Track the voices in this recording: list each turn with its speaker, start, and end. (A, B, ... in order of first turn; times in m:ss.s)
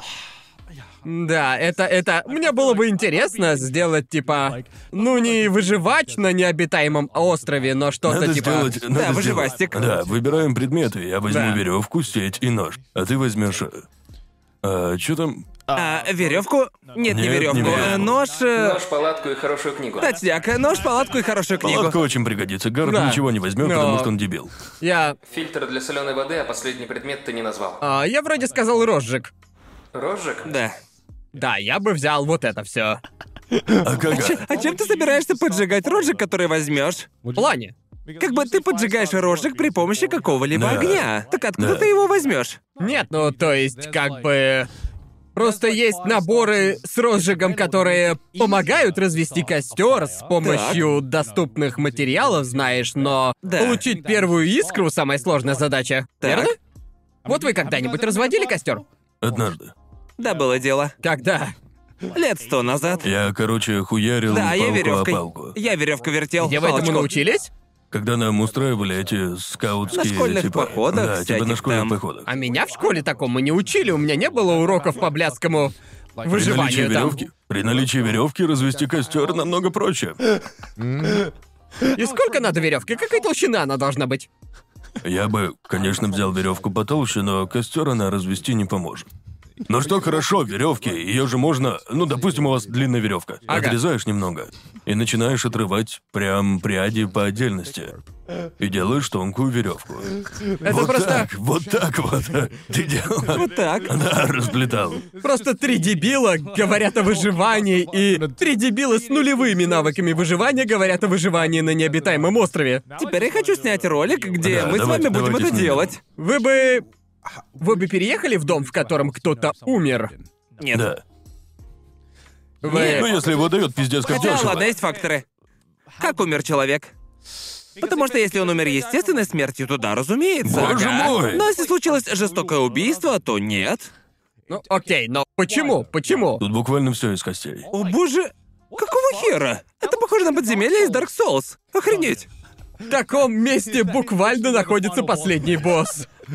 0:01.0-0:08.8 A
0:08.0-0:13.8 B
0:08.9-0:10.0 C
0:11.3-0:11.6 A
0:14.6-0:15.5 B
0:15.7-0:18.8 C
0:17.1-0:18.2 B
0:18.5-0:20.1 D
0:20.0-0:22.0 C
0:21.6-0:24.5 B
0:22.8-0:24.1 A
0:24.8-0:25.2 A
0:25.3-0:27.8 D
0:27.8-0:29.3 A
0:29.9-0:30.5 D
0:30.4-0:30.8 C
0:31.3-0:33.0 A
0:33.7-0:34.4 B
0:34.1-0:37.1 C
0:37.3-0:37.7 A
0:38.2-0:42.6 C
0:40.5-0:41.9 B
0:42.8-0:44.7 A
0:45.3-0:56.6 A
0:50.4-0:50.8 C
0:53.4-0:53.8 C
0:56.2-0:56.5 C
0:57.2-0:58.8 A
0:59.2-0:59.7 B
1:00.2-1:00.9 C
1:01.0-1:01.5 A
1:02.1-1:03.1 C
1:03.0-1:05.6 B
1:04.3-1:07.1 C
1:06.4-1:07.5 A
1:07.9-1:12.3 B
1:09.9-1:12.0 C
1:12.2-1:17.2 A
1:16.3-1:20.2 B
1:21.9-1:24.3 A
1:25.0-1:29.1 B
1:29.7-1:38.0 B
1:33.5-1:33.8 A
1:38.6-1:45.0 B
1:40.6-1:41.3 A
1:43.3-1:43.9 C
1:45.2-1:52.8 A
1:53.0-1:56.0 C
1:54.4-1:56.0 B
1:56.2-1:56.8 A
1:57.6-2:00.1 A
2:00.6-2:00.9 C
2:00.7-2:01.0 B
2:02.6-2:03.1 A
2:02.6-2:03.1 C
2:02.7-2:04.7 B
2:04.0-2:05.2 C
2:06.0-2:06.9 C
2:07.8-2:13.9 C
2:10.4-2:11.5 B
2:10.6-2:11.0 A
2:14.5-2:16.4 A
2:16.4-2:17.7 B
2:17.7-2:22.3 C
2:22.9-2:26.1 A